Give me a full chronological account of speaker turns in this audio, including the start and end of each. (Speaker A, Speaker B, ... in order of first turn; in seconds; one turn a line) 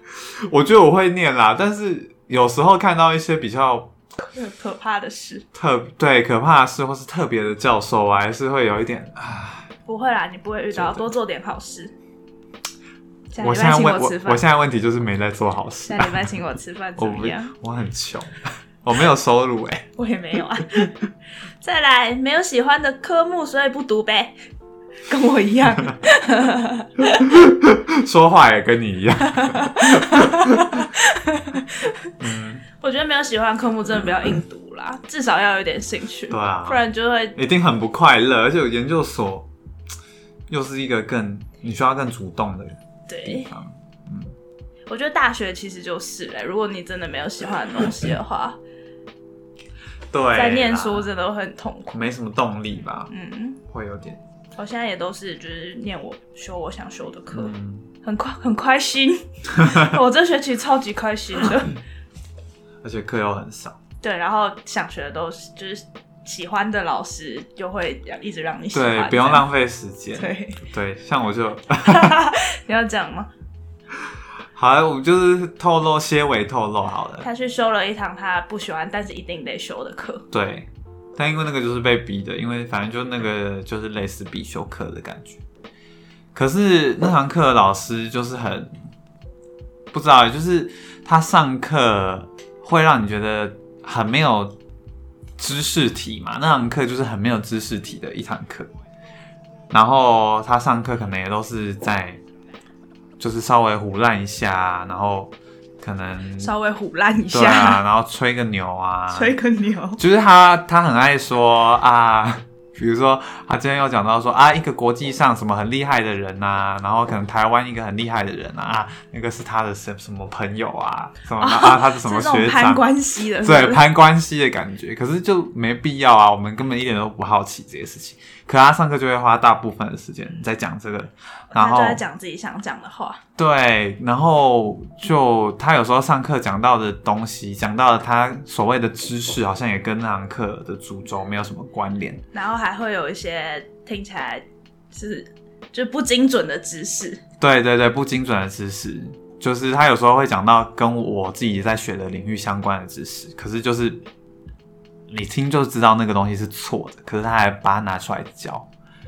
Speaker A: 0.4-3.9
Speaker B: 4.2-5.5
Speaker A: 5.5-9.7
Speaker B: 9.8-11.9
Speaker A: 10.7-11.1
Speaker B: 13.3-14.4
Speaker A: 13.4-16.3
Speaker B: 15.9-17.5
Speaker A: 17.0-19.9
Speaker B: 19.9-21.0
Speaker B: 21.6-24.3
Speaker B: 25.1-27.4
Speaker A: 27.1-30.9
Speaker B: 29.3-32.1
Speaker A: 32.2-32.7
Speaker B: 32.8-37.4
Speaker A: 36.3-36.8
Speaker A: 37.3-39.5
Speaker A: 40.5-44.3
Speaker B: 43.1-43.5
Speaker B: 44.9-48.6
Speaker A: 50.1-51.1
Speaker B: 50.3-52.0
Speaker A: 51.9-53.1
Speaker B: 53.1-53.6
Speaker A: 53.7-54.2
Speaker B: 54.5-57.5
Speaker A: 57.3-57.9
Speaker B: 58.0-61.8
Speaker A: 59.5-59.9
Speaker A: 62.8-63.8
Speaker B: 64.0-69.5
Speaker A: 68.7-72.2
Speaker B: 70.2-70.6
Speaker B: 71.8-73.3
Speaker A: 74.5-77.3
Speaker B: 77.2-80.3
Speaker A: 80.3-85.4
Speaker A: 86.3-88.8
Speaker A: 89.9-94.5
Speaker A: 95.4-98.7
Speaker A: 99.7-102.2
Speaker A: 103.2-106.5
Speaker B: 106.4-107.8
Speaker A: 107.3-109.3
Speaker B: 109.1-110.0
Speaker A: 110.0-122.8
Speaker B: 121.4-123.8
Speaker A: 123.4-132.0
Speaker B: 131.5-133.2
Speaker A: 133.4-142.2
Speaker B: 142.3-147.2
Speaker A: 147.4-154.0
Speaker A: 155.1-158.7